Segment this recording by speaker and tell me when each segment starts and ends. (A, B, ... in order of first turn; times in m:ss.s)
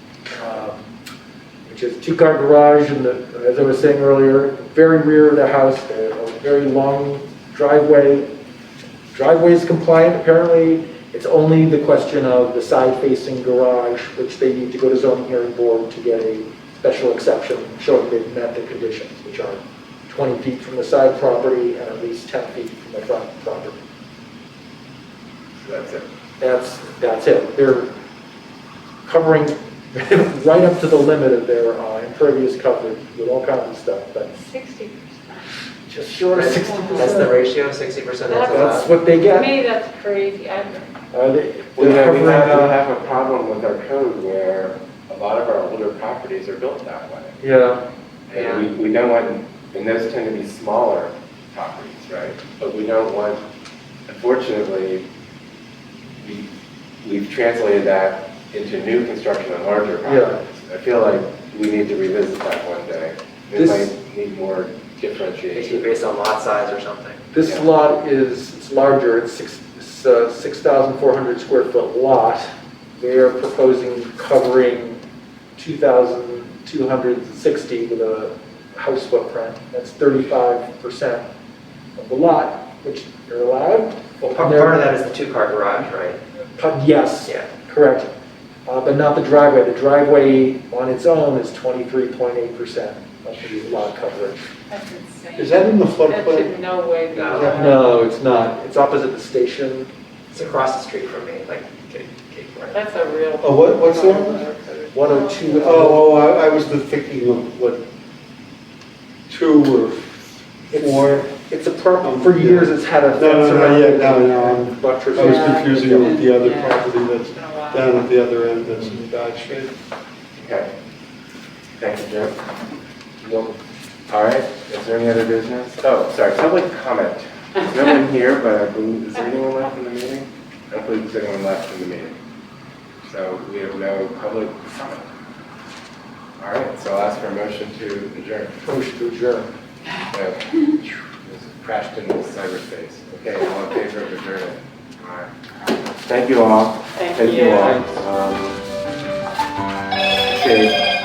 0:00.3-0:00.8 A
0:01.6-0:08.3 A
0:09.1-0:23.8 A
0:25.6-0:26.0 B
0:26.4-0:27.9 A
0:29.0-0:34.4 A
0:34.4-0:35.4 C
0:35.8-0:37.3 A
0:36.3-0:38.9 D
0:36.5-0:37.3 C
0:38.3-0:40.8 C
0:38.5-0:39.5 A
0:40.6-0:40.8 B
0:41.1-0:42.8 A
0:41.8-0:47.4 B
0:47.4-0:47.8 A
0:48.3-0:53.4 B
0:48.3-0:48.7 D
0:54.1-0:55.0 B
0:56.2-0:56.5 B
0:57.0-1:05.9 B
1:00.0-1:00.4 A
1:03.5-1:03.9 A
1:05.5-1:07.2 D
1:07.3-1:15.0 A
1:07.4-1:07.7 B
1:15.6-1:21.2 A
1:22.0-1:24.9 A
1:24.2-1:26.2 D
1:26.6-1:28.1 A
1:28.6-1:34.4 A
1:34.7-1:37.9 C
1:35.4-1:36.5 E
1:37.1-1:37.6 D
1:37.3-1:37.7 E
1:37.5-1:39.9 A
1:40.3-1:42.8 D
1:42.7-1:46.0 C
1:43.4-1:44.5 E
1:44.9-1:46.0 A
1:45.6-1:47.9 E
1:49.3-1:51.3 E
1:50.7-1:56.1 A
1:52.0-1:59.8 E
1:55.1-1:58.1 C
2:00.4-2:00.7 B
2:01.8-2:02.4 B
2:03.2-2:03.6 B
2:04.1-2:12.2 B
2:13.0-2:15.1 B
2:16.4-2:18.6 B
2:18.6-2:19.5 A
2:20.1-2:25.3 B
2:26.0-2:28.6 B
2:27.0-2:27.8 C
2:27.5-2:28.0 A
2:30.2-2:30.8 B